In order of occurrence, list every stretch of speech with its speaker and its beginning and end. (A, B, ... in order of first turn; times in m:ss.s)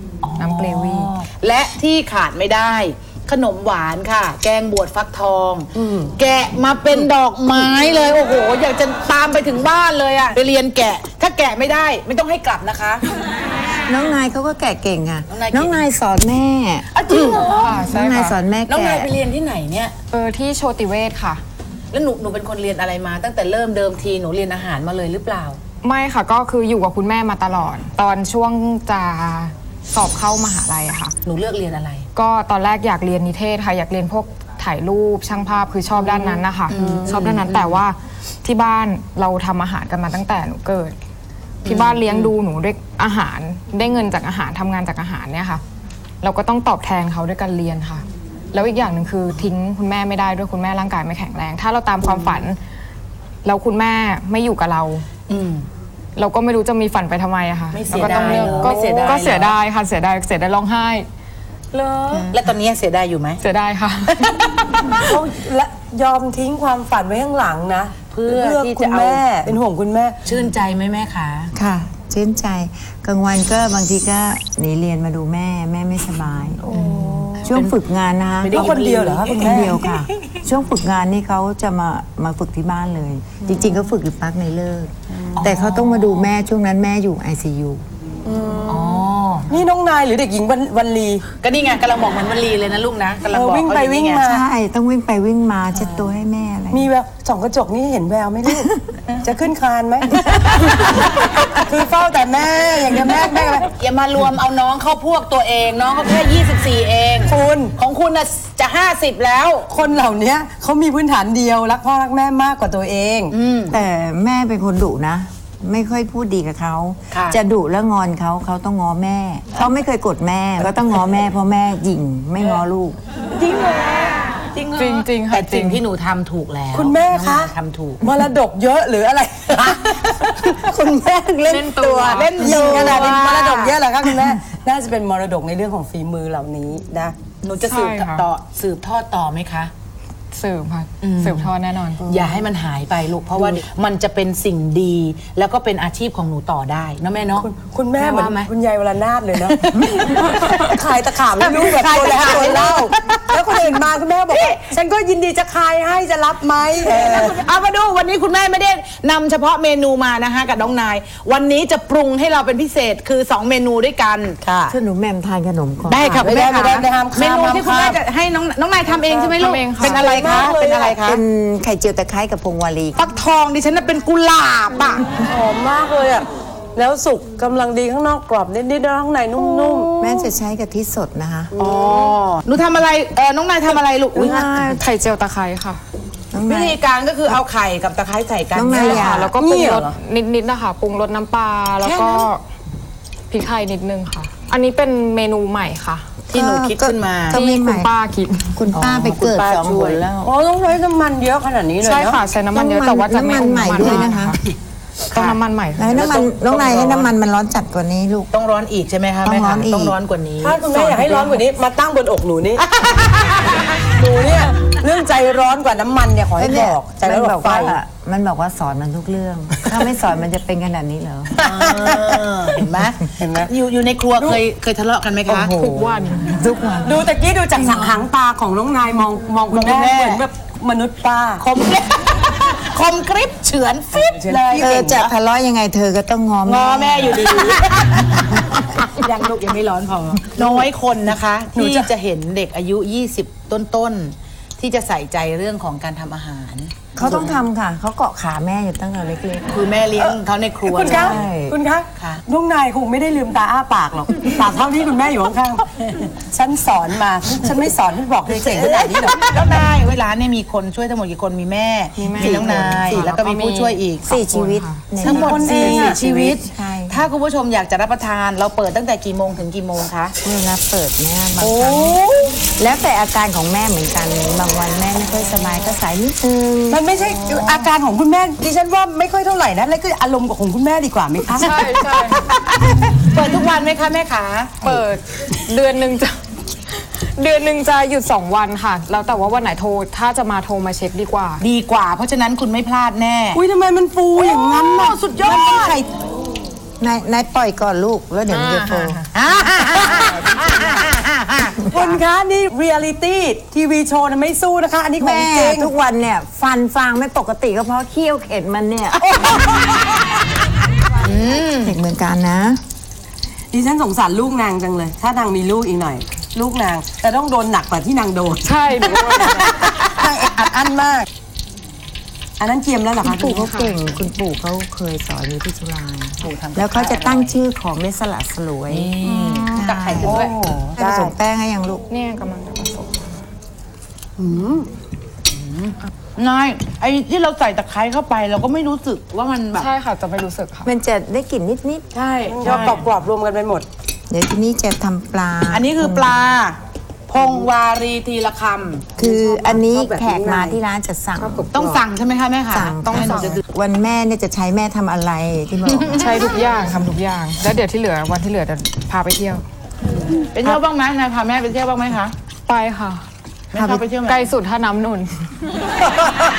0:00.2-0:13.0 A
0:00.4-0:01.1 B
0:05.8-0:06.1 C
0:13.9-0:16.9 D
0:15.3-0:15.8 A
0:16.9-0:17.8 A
0:17.4-0:18.4 B
0:17.7-0:19.1 D
0:18.7-0:20.0 A
0:20.1-0:21.4 B
0:21.9-0:25.6 A
0:25.8-0:31.1 B
0:31.3-0:32.1 A
0:32.2-0:41.0 B
0:36.0-0:37.7 A
0:36.7-0:37.3 C
0:41.6-0:42.3 A
0:41.6-0:45.6 B
0:46.2-0:52.6 B
0:52.0-0:52.4 A
0:53.4-0:55.1 B
0:55.3-0:55.7 A
0:56.2-1:01.1 B
0:57.7-0:59.6 A
0:57.9-0:59.3 C
1:01.7-1:02.3 C
1:02.1-1:02.4 D
1:02.3-1:03.4 A
1:03.4-1:04.7 B
1:04.1-1:05.0 A
1:05.0-1:10.2 C
1:08.1-1:09.4 A
1:10.3-1:11.5 A
1:11.5-1:27.8 D
1:16.6-1:17.6 C
1:17.5-1:17.8 A
1:18.4-1:19.7 A
1:18.5-1:20.0 C
1:25.2-1:25.5 C
1:25.4-1:26.3 A
1:28.2-1:31.3 C
1:28.7-1:29.5 A
1:31.4-1:34.2 A
1:33.3-1:34.4 C
1:34.2-1:36.9 D
1:36.7-1:38.7 C
1:38.5-1:38.8 D
1:39.2-1:43.7 C
1:40.3-1:41.5 A
1:43.6-1:49.7 A
1:47.3-1:47.8 C
1:49.7-1:53.4 C
1:53.3-1:53.8 A
1:53.7-2:03.0 D
1:57.1-1:57.4 A
2:03.4-2:04.0 C
2:03.9-2:08.0 A
2:04.7-2:05.8 B
2:06.7-2:17.2 C
2:09.6-2:10.7 A
2:11.4-2:13.2 B
2:12.0-2:13.8 A
2:17.4-2:19.7 A
2:17.6-2:18.3 B
2:20.3-2:22.0 B
2:21.0-2:21.5 A
2:22.0-2:28.5 A
2:22.0-2:22.4 C
2:27.4-2:37.4 C
2:29.4-2:30.7 A
2:31.4-2:33.4 A
2:34.3-2:34.6 A
2:36.8-2:44.4 A
2:44.4-2:44.8 C
2:44.7-2:46.3 D
2:45.9-2:51.2 A
2:46.2-2:48.0 C
2:49.0-2:51.0 C
2:49.4-2:50.1 B
2:51.0-2:53.0 D
2:53.0-2:55.1 A
2:55.2-3:00.3 C
3:00.0-3:01.5 D
3:01.5-3:02.2 C
3:01.6-3:04.5 A
3:04.1-3:04.8 C
3:04.2-3:04.8 D
3:04.8-3:05.8 B
3:06.3-3:06.8 D
3:06.5-3:09.2 A
3:08.5-3:09.3 D
3:08.7-3:12.4 B
3:09.4-3:10.0 C
3:11.8-3:12.3 A
3:13.3-3:16.1 B
3:16.3-3:17.9 D
3:16.3-3:17.4 A
3:17.3-3:18.6 B
3:18.5-3:20.3 D
3:18.7-3:20.0 A
3:20.2-3:22.2 C
3:21.8-3:24.4 B
3:22.5-3:24.4 D
3:25.1-3:26.1 B
3:25.1-3:27.2 A
3:25.8-3:28.3 D
3:28.3-3:31.4 A
3:29.2-3:30.0 D
3:30.4-3:32.7 C
3:32.6-3:33.9 A
3:33.9-3:37.8 C
3:36.4-3:41.4 D
3:41.4-3:42.2 C
3:41.4-3:45.5 A
3:43.2-3:43.5 C
3:45.3-3:46.2 C
3:45.4-3:48.0 D
3:46.8-3:51.4 C
3:49.5-3:50.2 A
3:51.4-3:55.1 A
3:54.0-3:55.1 C
3:54.6-3:57.2 D
3:56.5-4:07.4 A
4:00.4-4:00.7 C
4:01.5-4:01.9 C
4:07.0-4:09.6 D
4:09.5-4:11.2 A
4:10.0-4:19.6 C
4:10.8-4:11.6 D
4:12.0-4:12.2 A
4:18.3-4:24.2 A
4:22.0-4:25.3 B
4:22.1-4:23.1 D
4:24.1-4:27.1 D
4:25.0-4:30.1 A
4:25.0-4:26.4 C
4:30.2-4:32.0 D
4:31.4-4:32.4 C
4:32.6-4:36.8 D
4:36.7-4:41.7 C
4:41.3-4:42.3 B
4:41.5-4:44.8 A
4:44.6-4:51.4 B
4:51.4-4:53.4 A
4:53.3-4:55.9 C
4:54.2-4:55.8 A
4:56.8-4:59.0 D
4:58.3-4:59.0 B
4:59.1-5:01.7 A
5:01.7-5:05.7 C
5:05.0-5:09.7 D
5:09.4-5:09.8 A
5:11.0-5:11.8 A
5:11.6-5:12.6 D
5:13.5-5:18.5 C
5:18.4-5:19.6 B
5:19.0-5:19.9 A
5:19.4-5:21.1 C
5:22.4-5:23.5 C
5:23.0-5:31.8 D
5:23.3-5:24.0 B
5:26.2-5:27.4 A
5:28.7-5:30.7 A
5:30.0-5:31.1 C
5:31.9-5:33.0 B
5:34.2-5:34.7 C
5:35.3-5:39.7 A
5:39.5-5:40.7 B
5:40.6-5:41.9 D
5:41.9-5:43.7 C
5:42.0-5:42.9 A
5:44.1-5:46.2 D
5:45.5-5:49.0 A
5:49.0-5:51.5 D
5:49.0-5:50.6 C
5:51.2-5:51.8 C
5:51.5-5:53.4 A
5:52.5-5:56.4 D
5:52.9-5:53.4 B
5:55.7-5:56.2 A
5:55.9-5:59.4 B
6:00.0-6:02.1 A
6:02.5-6:03.1 B
6:03.5-6:04.3 A
6:03.6-6:03.8 D
6:04.0-6:05.2 B